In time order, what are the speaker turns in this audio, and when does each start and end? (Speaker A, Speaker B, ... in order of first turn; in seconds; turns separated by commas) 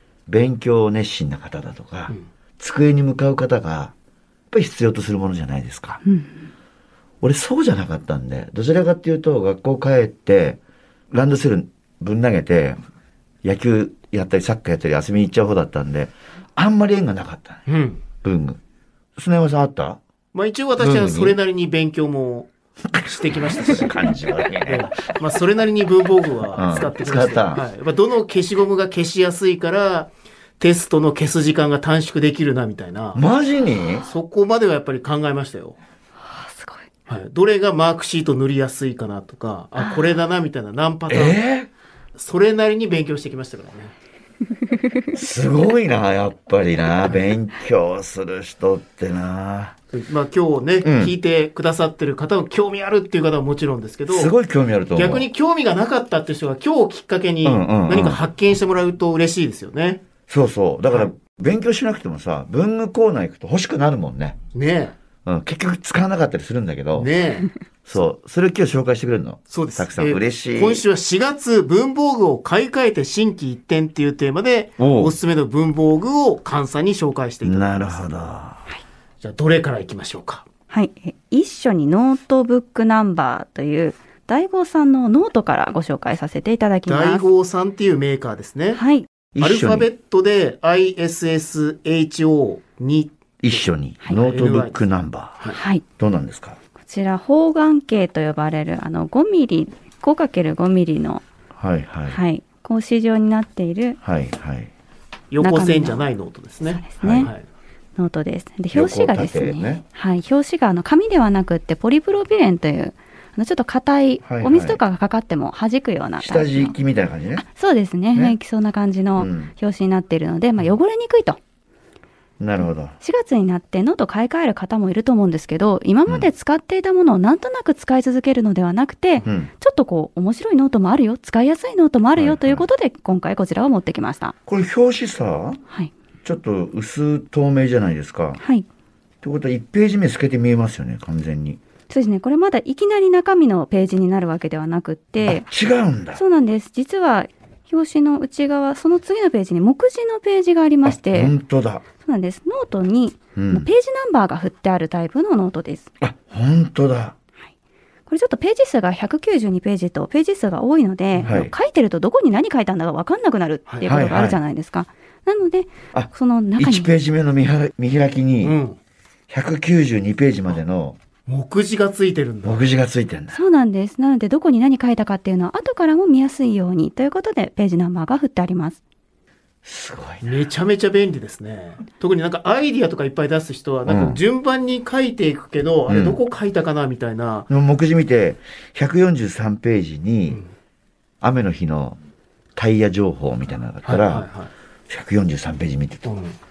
Speaker A: 0.3-3.9, Speaker A: 4.5-6.0, Speaker B: 6.0-6.5, Speaker A: 7.2-10.6, Speaker A: 11.1-12.8, Speaker A: 13.4-17.7, Speaker C: 17.7-18.0, Speaker A: 18.2-18.6, Speaker A: 19.1-20.0, Speaker C: 20.3-22.5, Speaker A: 20.8-21.4, Speaker A: 22.9-24.9, Speaker C: 23.0-24.0, Speaker C: 24.6-33.2, Speaker A: 26.5-27.6, Speaker A: 33.1-34.0, Speaker C: 34.0-35.8, Speaker B: 36.2-36.9, Speaker C: 37.1-41.4, Speaker B: 39.8-40.1, Speaker A: 41.1-41.7, Speaker C: 42.1-43.9, Speaker B: 44.6-45.1, Speaker A: 45.1-49.8, Speaker C: 49.9-54.3, Speaker A: 50.8-51.1, Speaker A: 54.1-55.3, Speaker C: 54.9-60.0, Speaker A: 57.4-58.2, Speaker A: 60.3-64.4, Speaker C: 64.5-65.0, Speaker A: 65.2-67.1, Speaker C: 67.0-67.5, Speaker A: 67.8-70.8, Speaker C: 69.5-78.1, Speaker A: 74.8-75.2, Speaker A: 77.4-78.6, Speaker C: 79.2-80.4, Speaker B: 80.7-87.3, Speaker C: 86.9-88.8, Speaker B: 88.7-89.1, Speaker A: 89.3-89.9, Speaker C: 89.4-94.8, Speaker A: 93.4-95.4, Speaker B: 95.5-95.8, Speaker A: 96.0-96.6, Speaker B: 96.8-101.2, Speaker A: 101.5-102.2, Speaker B: 102.1-104.0, Speaker A: 104.0-104.7, Speaker C: 105.3-107.4, Speaker B: 105.4-106.1, Speaker B: 106.7-107.3, Speaker A: 107.0-107.3, Speaker B: 108.0-116.7, Speaker A: 108.7-109.8, Speaker A: 114.2-114.8, Speaker A: 116.2-117.4, Speaker B: 117.4-121.4, Speaker A: 119.2-119.5, Speaker A: 122.4-122.9, Speaker B: 123.0-134.3, Speaker A: 129.2-129.5, Speaker A: 132.2-132.7, Speaker A: 134.5-135.6, Speaker A: 136.2-138.4, Speaker B: 138.4-138.7, Speaker A: 139.2-141.6, Speaker B: 141.9-145.5, Speaker A: 145.2-146.2, Speaker B: 146.1-151.3, Speaker A: 150.8-151.8, Speaker B: 152.0-155.9, Speaker A: 153.3-153.7, Speaker A: 156.0-157.1, Speaker B: 158.1-166.9, Speaker C: 161.1-161.4, Speaker A: 161.2-161.5, Speaker C: 163.7-164.0, Speaker A: 163.8-164.4, Speaker A: 165.9-168.6, Speaker C: 168.4-168.8, Speaker A: 169.3-171.0, Speaker C: 171.3-172.6, Speaker A: 172.4-173.4, Speaker B: 173.3-178.8, Speaker A: 179.6-180.4, Speaker C: 180.2-187.5, Speaker A: 183.8-184.2, Speaker A: 185.9-186.2, Speaker A: 187.5-190.4, Speaker A: 191.2-192.0, Speaker A: 192.6-194.3, Speaker C: 193.8-194.5, Speaker A: 194.9-196.1, Speaker C: 196.0-196.3